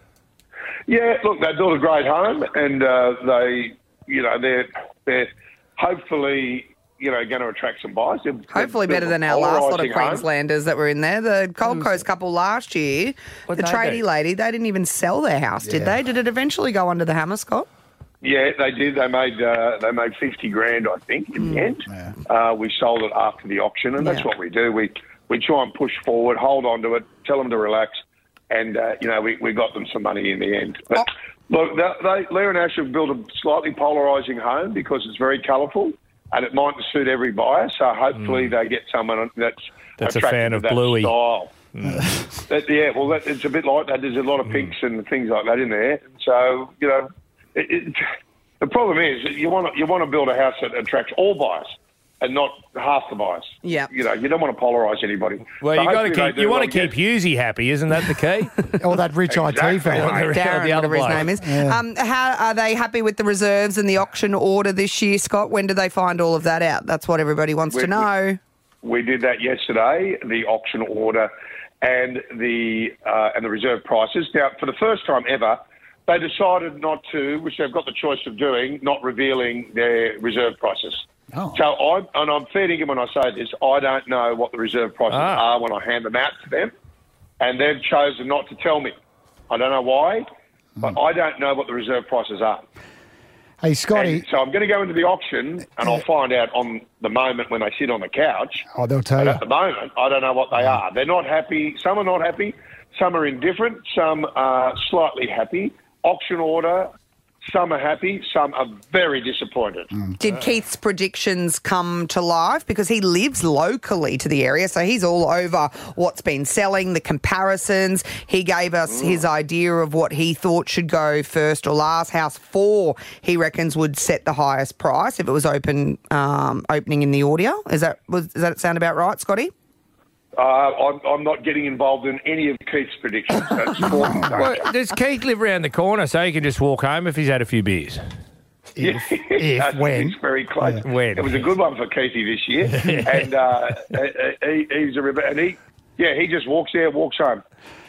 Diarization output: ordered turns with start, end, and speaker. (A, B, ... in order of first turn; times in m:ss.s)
0:00.9-0:10.2 A
0:08.5-0:17.7 B
0:13.5-0:14.0 C
0:15.6-0:16.0 D
0:18.2-0:28.0 A
0:21.4-0:21.7 B
0:21.9-0:22.1 D
0:24.0-0:24.3 B
0:28.5-0:41.5 A
0:38.1-0:38.5 C
0:40.0-0:41.1 C
0:41.7-0:42.1 C
0:41.8-0:42.2 D
0:42.5-0:48.0 A
0:48.6-0:56.9 A
0:53.6-0:53.9 B
0:55.6-0:58.6 C
0:58.8-1:00.2 D
0:59.3-1:00.2 A
0:59.9-1:01.3 C
1:00.0-1:08.4 B
1:01.4-1:01.8 D
1:07.7-1:08.0 A
1:08.8-1:26.7 A
1:21.3-1:21.6 D
1:25.1-1:25.4 C
1:27.4-1:28.9 A
1:29.5-1:30.3 A
1:30.8-1:32.7 A
1:33.6-1:34.2 D
1:33.9-1:38.6 A
1:38.7-1:39.4 D
1:39.2-1:46.9 A
1:47.4-1:49.9 A
1:50.2-2:09.5 B
2:10.4-2:14.7 A
2:13.9-2:14.3 D
2:14.3-2:18.0 C
2:18.8-2:20.8 D
2:18.8-2:27.4 A
2:20.8-2:21.3 C